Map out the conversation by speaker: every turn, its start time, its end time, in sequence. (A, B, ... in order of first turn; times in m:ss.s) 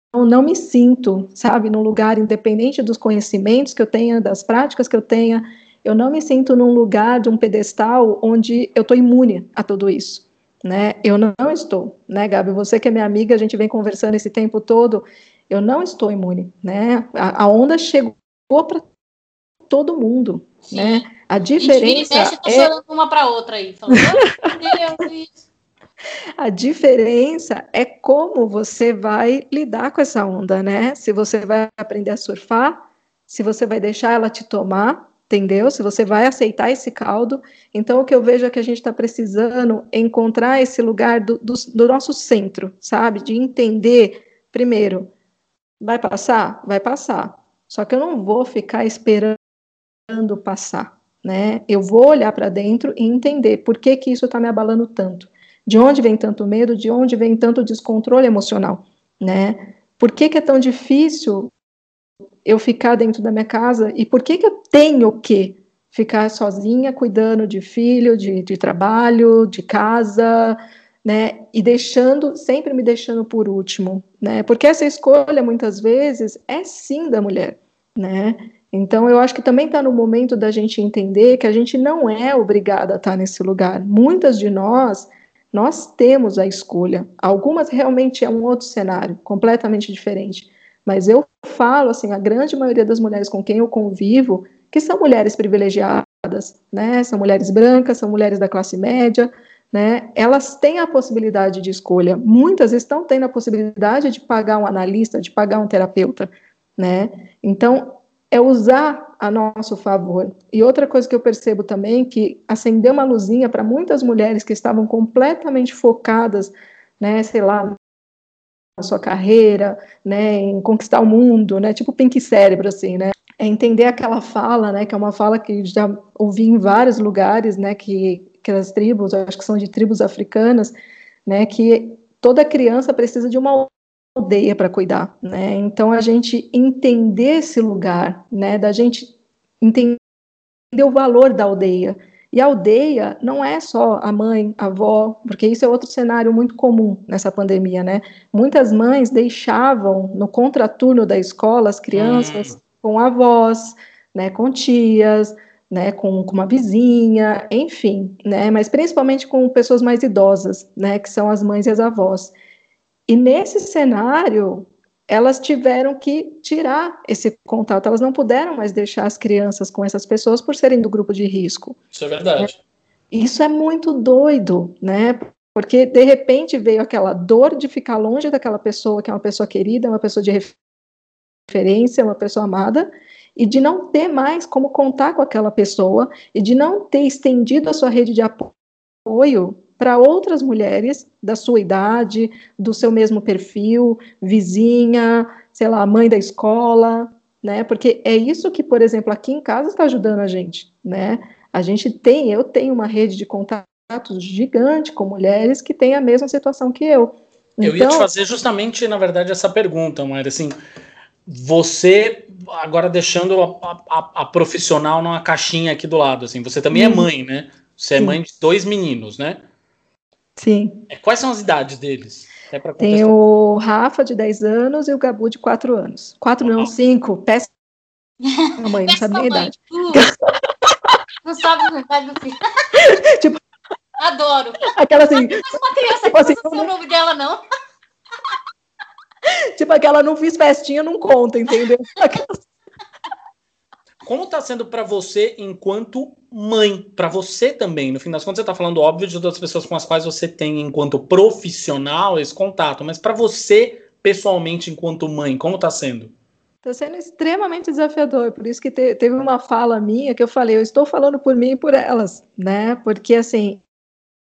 0:00.1-0:18.9 A
0:19.7-0:22.7 A
0:20.7-0:25.4 B
0:23.9-0:24.5 A
0:26.4-0:45.1 A
0:45.8-0:49.4 A
0:50.1-1:01.5 A
1:02.4-1:57.8 A
1:58.8-2:10.7 A
2:11.2-2:19.1 A
2:19.6-2:20.0 A
2:20.7-2:42.3 A
2:31.9-2:32.6 C
2:43.1-2:51.8 A
2:51.9-2:52.6 C
2:53.1-3:00.6 A
3:01.5-3:08.5 A
3:09.0-3:28.1 A
3:27.6-3:30.6 C
3:31.3-3:39.4 C
3:36.7-3:37.1 A
3:40.4-3:40.9 A
3:40.9-3:43.1 C
3:42.8-3:47.5 A
3:46.4-3:46.7 C
3:48.2-3:50.1 B
3:48.6-3:50.1 A
3:50.6-3:51.0 A
3:51.2-3:52.4 B
3:52.7-3:53.4 A
3:54.0-3:57.4 B
3:54.7-3:56.7 A
3:59.6-4:02.4 A
4:04.0-4:16.1 C
4:16.6-4:23.6 A